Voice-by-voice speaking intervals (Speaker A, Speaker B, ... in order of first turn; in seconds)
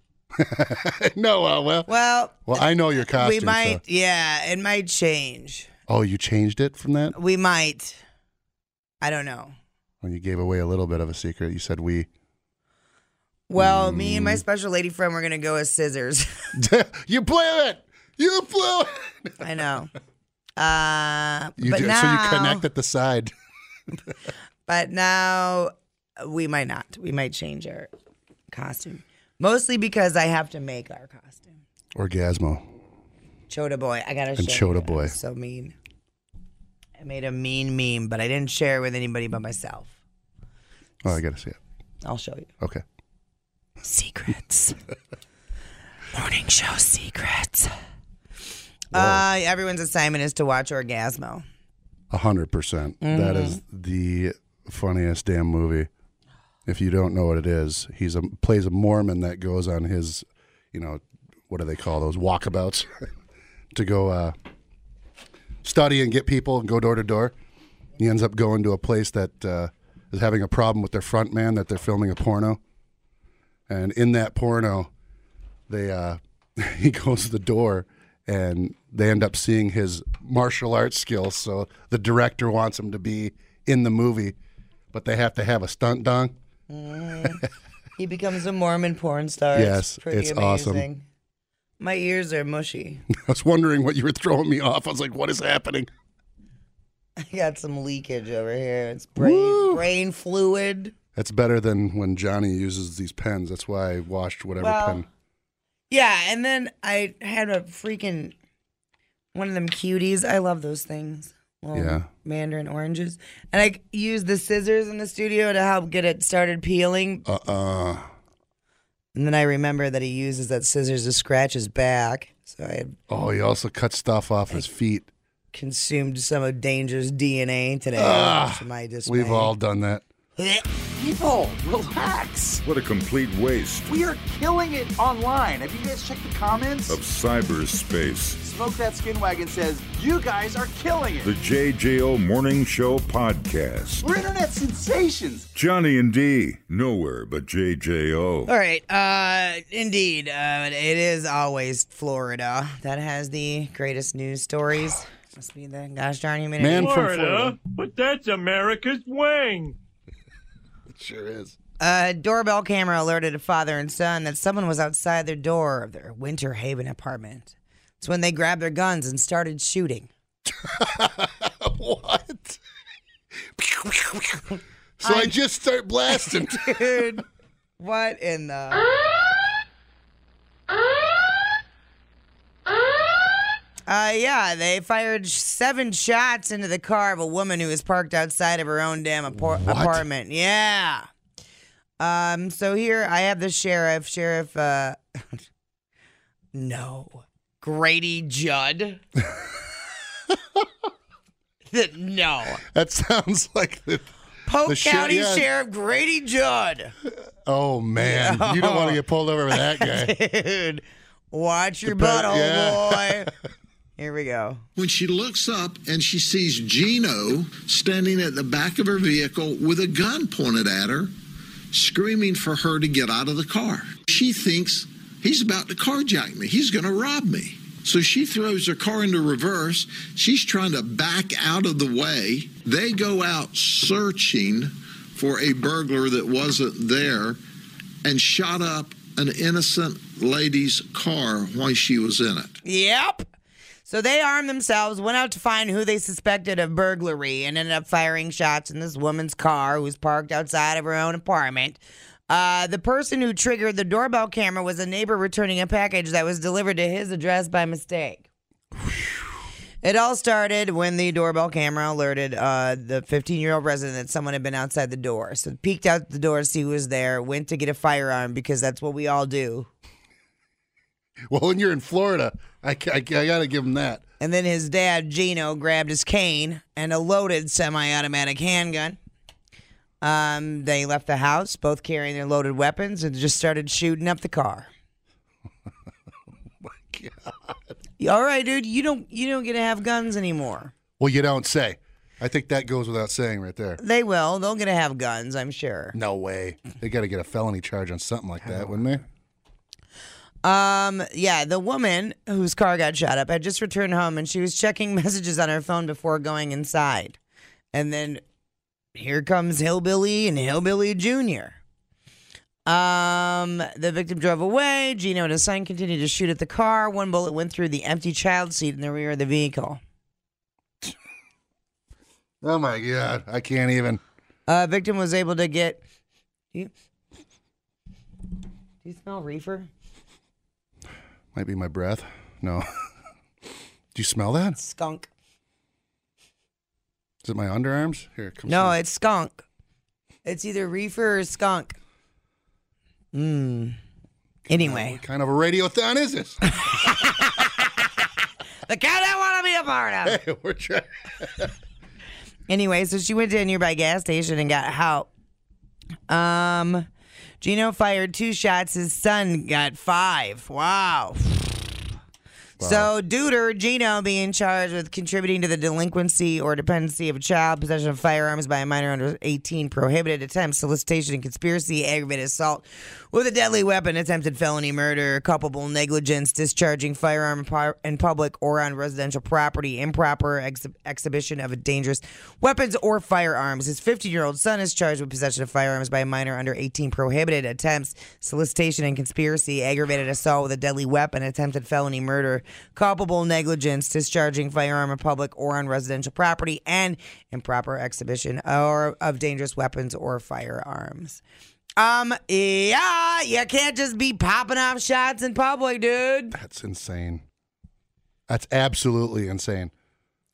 Speaker A: 0.4-1.9, 2.5-3.8, 5.9-7.1, 10.0-12.1, 13.6-14.4, 16.6-19.4, 21.6-23.3, 31.9-32.7, 34.4-35.1, 41.0-41.6, 48.9-49.2, 52.1-55.9, 56.7-63.1, 63.7-64.3, 65.6-67.3, 68.0-72.6, 73.7-74.9, 75.7-84.4, 84.9-86.3, 89.5-90.9, 93.1-95.9, 99.2-99.8, 101.1-105.1, 111.7-112.1, 117.2-118.1, 123.1-125.1, 128.0-130.1, 156.6-157.5, 160.9-161.6, 170.5-172.6, 173.6-174.4, 175.0-177.2, 189.4-190.0, 202.7-204.1, 204.7-205.5, 207.4-210.1, 211.9-213.3, 271.3-274.0, 286.6-287.6, 291.0-293.8, 295.9-299.0, 322.4-324.0, 331.3-332.7, 333.9-334.6, 337.2-338.8, 344.5-346.5, 350.1-351.5, 362.6-362.9, 406.3-407.2, 408.3-409.7
Speaker B: 1.9-5.7, 7.1-8.0, 9.0-9.5, 13.5-16.6, 19.4-19.9, 20.6-22.7, 24.7-27.9, 28.5-31.6, 33.5-35.7, 37.0-39.9, 42.0-42.5, 43.8-44.8, 46.1-47.7, 48.9-51.4, 53.0-53.6, 86.7-87.4, 88.0-91.1, 91.8-93.0, 97.2-100.9, 104.6-105.0, 105.9-108.3, 109.3-117.2, 119.1-123.0, 125.5-129.5, 130.4-130.6, 148.5-157.5, 161.8-170.1, 175.0-175.4, 176.1-177.2, 177.8-178.9, 183.9-191.1, 192.0-195.4, 196.5-199.0, 201.7-202.6, 204.5-206.9, 208.0-213.3, 214.0-214.6, 242.6-243.2, 243.9-258.3, 259.8-269.7, 274.2-279.0, 280.0-284.7, 288.0-290.7, 293.8-295.9, 300.4-307.2, 307.7-308.2, 308.9-311.6, 312.7-319.8, 324.5-325.8, 328.8-329.7, 334.6-335.1, 338.5-339.4, 340.2-341.8, 343.1-343.8, 344.5-345.0, 346.6-347.8, 348.7-350.2, 352.5-355.1, 356.1-356.9, 357.4-361.7, 362.6-401.2, 401.8-406.4
Speaker C: 132.6-133.9, 136.9-138.4, 141.2-144.0, 145.5-148.5
Speaker D: 133.9-135.1, 139.9-141.2, 144.0-144.6
Speaker E: 156.8-159.8
Speaker F: 214.8-221.1, 221.7-237.4, 238.0-242.6